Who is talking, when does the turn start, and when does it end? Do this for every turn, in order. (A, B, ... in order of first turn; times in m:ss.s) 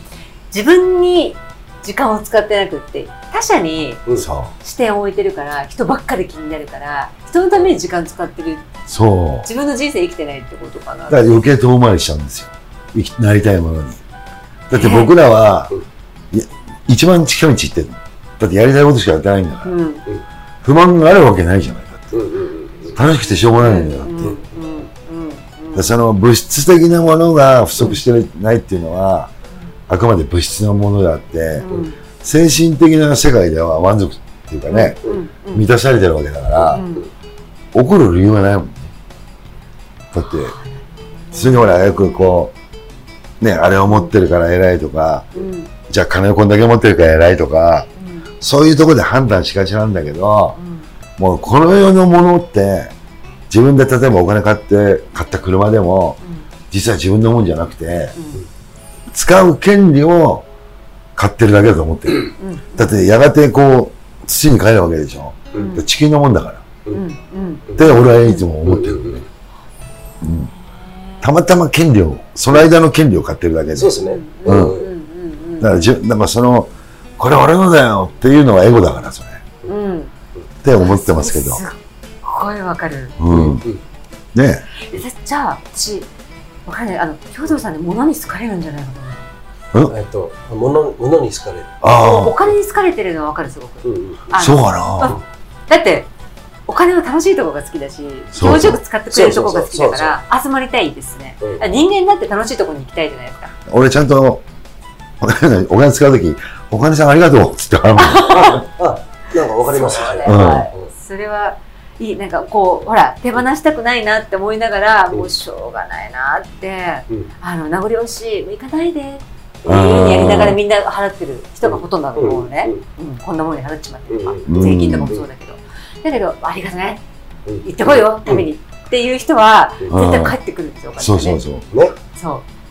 0:00.5-0:04.0 A
0:04.2-0:04.5 B
0:04.6-0:08.7 A
0:08.9-0:09.5 B
0:09.4-0:11.3 A
0:11.1-0:14.0 B
0:14.7-0:15.7 B
0:14.7-0:15.1 A
0:16.3-0:19.7 B
0:19.6-0:20.1 A
0:20.6-0:22.1 B
0:22.1-0:23.0 C
0:23.0-0:24.3 B
0:23.6-0:25.9 A
0:25.7-0:29.3 B
0:29.9-0:31.7 B
0:31.6-0:32.0 A
0:32.2-0:35.0 B
0:34.7-0:35.7 A
0:35.5-0:36.8 B
0:36.7-0:37.1 A
0:36.7-0:37.0 C
0:37.7-0:38.9 B
0:40.1-0:40.5 B
0:40.2-0:42.4 A
0:41.3-0:42.5 B
0:43.4-0:45.3 B
0:45.4-0:45.7 A
0:45.9-0:47.9 B
0:48.0-0:48.3 A
0:48.4-0:50.6 B
0:50.6-0:50.9 A
0:51.2-0:52.9 B
0:53.5-0:56.2 B
0:56.7-0:58.2 B
0:58.2-0:58.4 A
0:59.1-1:00.5 B
1:01.2-1:06.7 B
1:02.4-1:02.9 A
1:05.5-1:05.8 A
1:06.9-1:08.4 A
1:07.8-1:09.2 B
1:08.6-1:09.2 C
1:10.2-1:10.5 B
1:10.5-1:11.2 A
1:11.2-1:14.8 B
1:13.8-1:14.9 C
1:14.0-1:15.9 A
1:15.6-1:19.4 B
1:19.7-1:20.1 A
1:20.6-1:21.6 B
1:20.8-1:23.2 A
1:23.2-1:23.6 B
1:23.3-1:23.8 C
1:24.3-1:24.6 B
1:24.8-1:26.1 A
1:26.7-1:29.3 A
1:29.9-1:31.8 C
1:31.8-1:32.4 B
1:31.9-1:36.1 A
1:33.8-1:34.3 C
1:34.3-1:35.2 B
1:36.7-1:43.5 A
1:38.3-1:38.8 B
1:39.1-1:40.2 C
1:41.4-1:41.8 C
1:43.7-1:44.4 B
1:45.2-1:48.5 B
1:48.0-1:48.7 A
1:48.3-1:50.9 C
1:49.6-2:07.0 A
1:50.3-1:50.7 B
1:59.6-2:00.6 B
1:59.7-2:00.4 C
2:01.6-2:02.8 C
2:04.1-2:05.2 C
2:04.5-2:05.2 B
2:07.5-2:08.5 C
2:07.6-2:11.4 A
2:09.9-2:10.4 B
2:11.0-2:11.7 B
2:12.2-2:12.4 A